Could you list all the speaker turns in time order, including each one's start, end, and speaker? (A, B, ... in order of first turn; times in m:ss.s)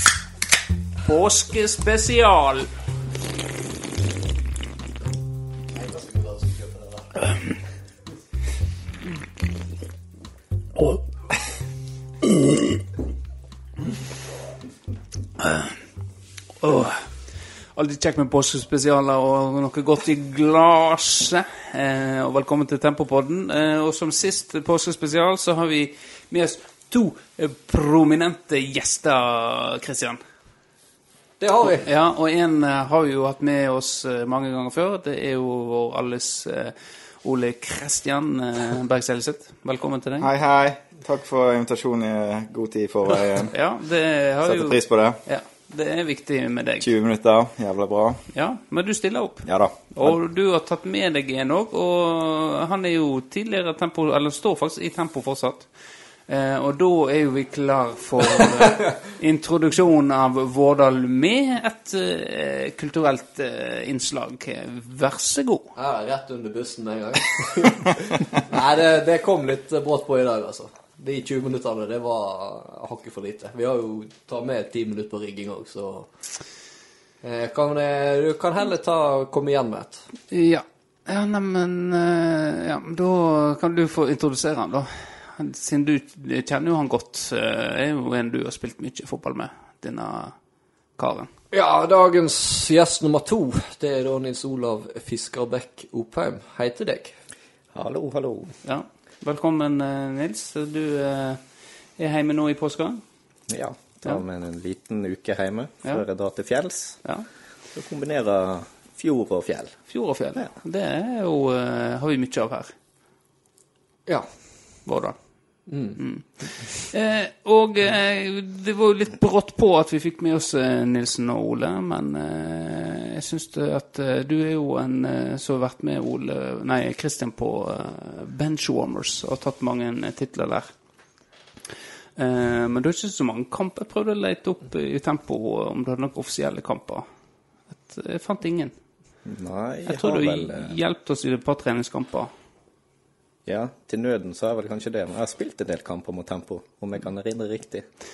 0:01.0-0:02.7 A
0:05.7-0:07.1 B
0:15.4-0:15.8 A
0:16.6-0:17.1 A
0:17.7-0:30.2 A
0:31.4-0:31.9 B
0:31.6-0:40.3 A
0:40.2-0:43.5 C
0:43.5-0:46.9 A
0:44.4-0:45.2 C
0:46.8-0:48.2 C
0:48.3-0:55.7 A
0:49.4-0:50.2 C
0:56.3-1:05.7 A
1:05.8-1:16.1 B
1:17.2-1:20.0 B
1:20.3-1:30.3 A
1:31.0-1:31.3 A
1:31.5-1:37.1 B
1:37.7-1:38.5 D
1:38.6-1:41.4 A
1:42.0-1:43.0 A
1:43.5-1:47.0 D
1:47.7-1:49.8 D
1:49.9-1:52.7 A
1:54.8-1:55.2 A
1:55.7-1:56.0 B
1:56.0-2:10.7 A
2:12.2-2:17.0 A
2:17.7-2:18.7 A
2:19.2-2:20.7 D
2:19.9-2:22.3 A
2:23.4-2:27.8 D